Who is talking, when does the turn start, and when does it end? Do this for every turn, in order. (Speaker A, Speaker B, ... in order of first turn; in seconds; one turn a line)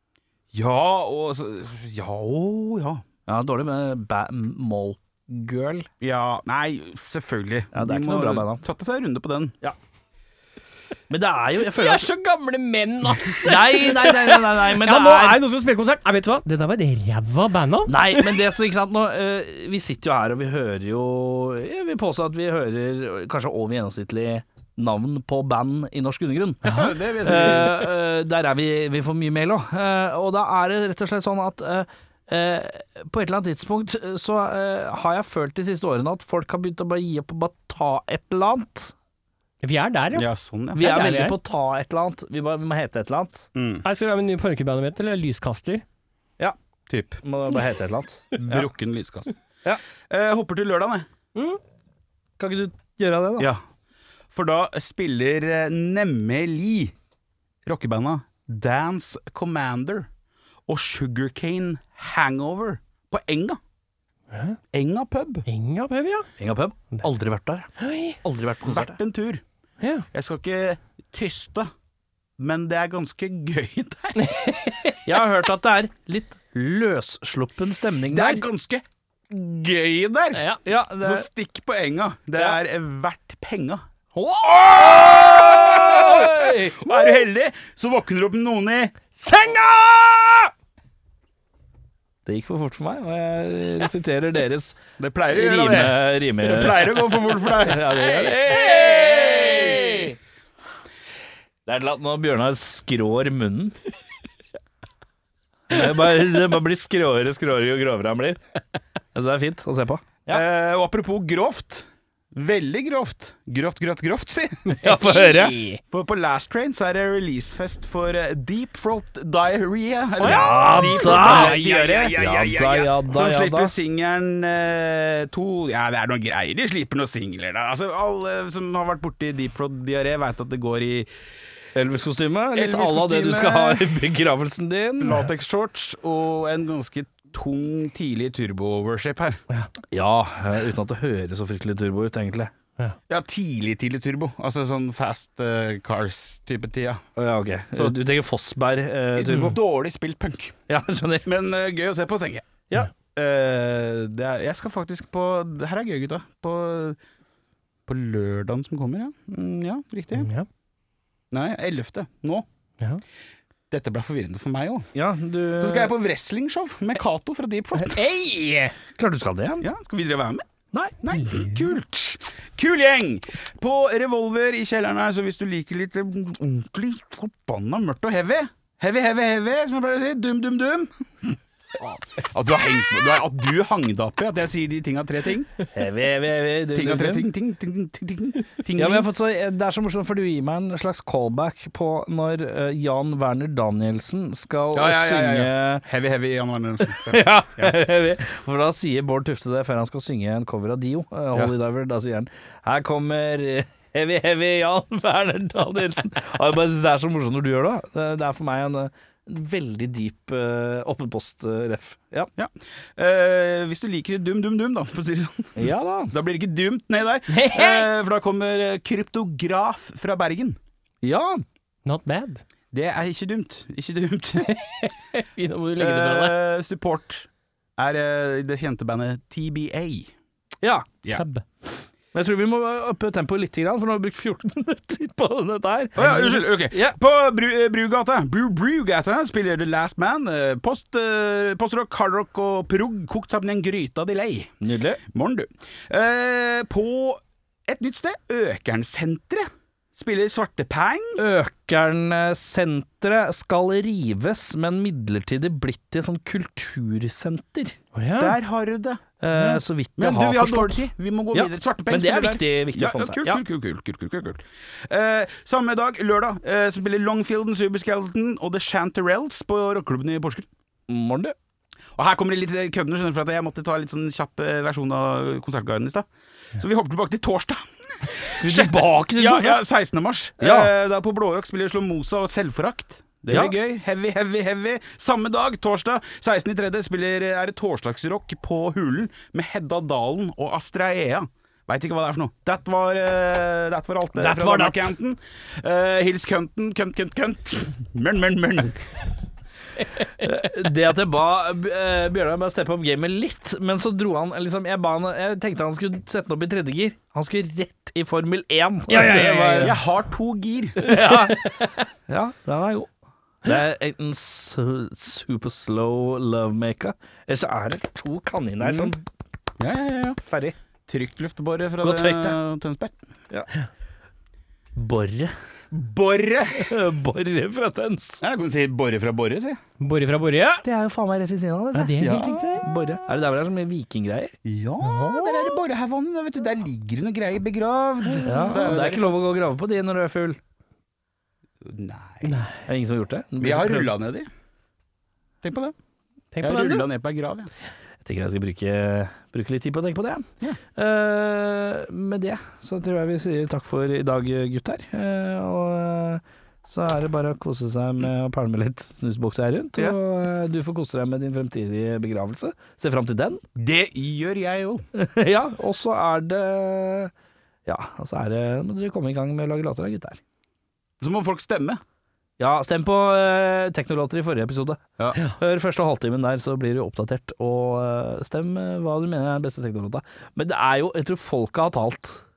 Speaker A: 0.5-3.0
Speaker B: 3.3-5.9
Speaker A: 6.0-9.5
Speaker B: 7.7-8.6
Speaker B: 11.1-12.1
Speaker C: 11.7-18.4
Speaker B: 13.2-15.4
Speaker B: 17.9-38.9
Speaker A: 26.6-27.9
Speaker C: 39.6-40.2
Speaker A: 40.1-40.9
Speaker B: 40.7-43.5
Speaker C: 40.8-41.3
Speaker A: 43.5-43.9
Speaker C: 43.8-45.8
Speaker A: 46.9-47.2
Speaker B: 47.2-48.7
Speaker A: 48.4-49.3
Speaker A: 50.0-51.1
Speaker B: 52.4-53.5
Speaker A: 54.3-56.9
Speaker A: 57.6-60.1
Speaker A: 60.7-63.6
Speaker C: 64.3-64.6
Speaker A: 64.7-65.5
Speaker C: 65.5-66.3
Speaker B: 66.4-69.0
Speaker C: 67.8-68.2
Speaker A: 68.6-69.4
Speaker C: 69.8-70.0
Speaker A: 70.1-71.7
Speaker A: 72.4-74.5
Speaker C: 74.2-75.0
Speaker B: 75.0-78.4
Speaker A: 78.1-80.4
Speaker C: 80.3-80.6
Speaker B: 80.6-81.3
Speaker A: 81.0-83.8
Speaker C: 84.1-85.9
Speaker B: 84.8-86.9
Speaker A: 84.8-89.1
Speaker C: 89.2-89.9
Speaker B: 89.5-90.1
Speaker B: 92.2-94.8
Speaker A: 95.0-100.1
Speaker B: 95.3-100.2
Speaker B: 101.6-103.8
Speaker B: 105.7-108.4
Speaker B: 109.1-110.4
Speaker A: 110.3-114.6
Speaker C: 114.7-115.8
Speaker B: 114.8-115.6
Speaker A: 115.9-131.1
Speaker C: 120.2-122.1
Speaker B: 120.2-121.6
Speaker B: 122.2-123.7
Speaker B: 131.7-135.2
Speaker A: 132.5-134.0
Speaker A: 135.0-139.4
Speaker B: 139.9-142.5
Speaker A: 143.1-147.0
Speaker B: 147.2-149.6
Speaker A: 149.1-150.6
Speaker B: 150.7-151.3
Speaker A: 151.2-152.5
Speaker A: 153.1-157.0
Speaker A: 157.8-160.3
Speaker C: 160.2-160.5
Speaker A: 161.3-162.4
Speaker A: 163.7-164.9
Speaker B: 164.9-165.9
Speaker A: 165.6-168.0
Speaker C: 167.8-168.7
Speaker B: 168.9-169.7
Speaker A: 169.6-170.4
Speaker A: 171.0-185.5
Speaker C: 171.2-171.5
Speaker B: 185.7-187.3
Speaker A: 186.7-189.1
Speaker B: 188.8-195.8
Speaker A: 194.7-197.8
Speaker B: 197.0-212.3
Speaker A: 212.3-220.6
Speaker B: 215.6-216.1
Speaker C: 217.3-217.9
Speaker B: 221.0-221.4
Speaker C: 221.8-222.4
Speaker A: 222.7-224.8
Speaker C: 224.5-226.3
Speaker A: 225.8-230.1
Speaker B: 230.6-230.9
Speaker C: 231.1-231.4
Speaker B: 232.1-237.0
Speaker A: 235.9-251.2
Speaker B: 244.6-245.0
Speaker B: 251.2-257.8
Speaker C: 257.9-258.4
Speaker A: 258.2-259.0
Speaker B: 259.2-263.4
Speaker C: 259.3-259.6
Speaker A: 260.0-270.5
Speaker B: 270.9-271.4
Speaker A: 271.9-276.1
Speaker A: 276.6-298.9
Speaker B: 278.4-279.6
Speaker B: 280.4-280.7
Speaker C: 294.2-294.8
Speaker B: 294.3-294.8
Speaker B: 300.2-309.8
Speaker C: 308.9-309.8
Speaker A: 309.6-310.9
Speaker B: 310.8-311.5
Speaker C: 311.0-311.7
Speaker B: 312.1-312.9
Speaker B: 313.4-319.0
Speaker A: 318.6-318.9
Speaker A: 319.6-320.2
Speaker B: 320.2-320.6
Speaker A: 320.9-322.9
Speaker B: 321.8-322.4
Speaker B: 324.7-325.3
Speaker A: 325.7-326.8
Speaker B: 326.5-328.2
Speaker A: 328.2-329.6
Speaker C: 329.8-330.6
Speaker B: 330.6-334.3
Speaker C: 331.7-332.6
Speaker A: 332.0-332.6
Speaker A: 334.4-339.1
Speaker C: 334.8-335.6
Speaker C: 338.1-338.6
Speaker B: 338.2-340.4
Speaker A: 341.6-342.5
Speaker C: 342.2-342.6
Speaker B: 342.6-343.9
Speaker A: 343.4-344.3
Speaker A: 345.4-345.7
Speaker C: 346.3-346.9
Speaker A: 346.4-347.5
Speaker B: 348.0-363.4
Speaker A: 363.6-364.8
Speaker B: 364.9-367.1
Speaker B: 367.6-370.2
Speaker A: 371.0-371.8
Speaker B: 372.4-382.2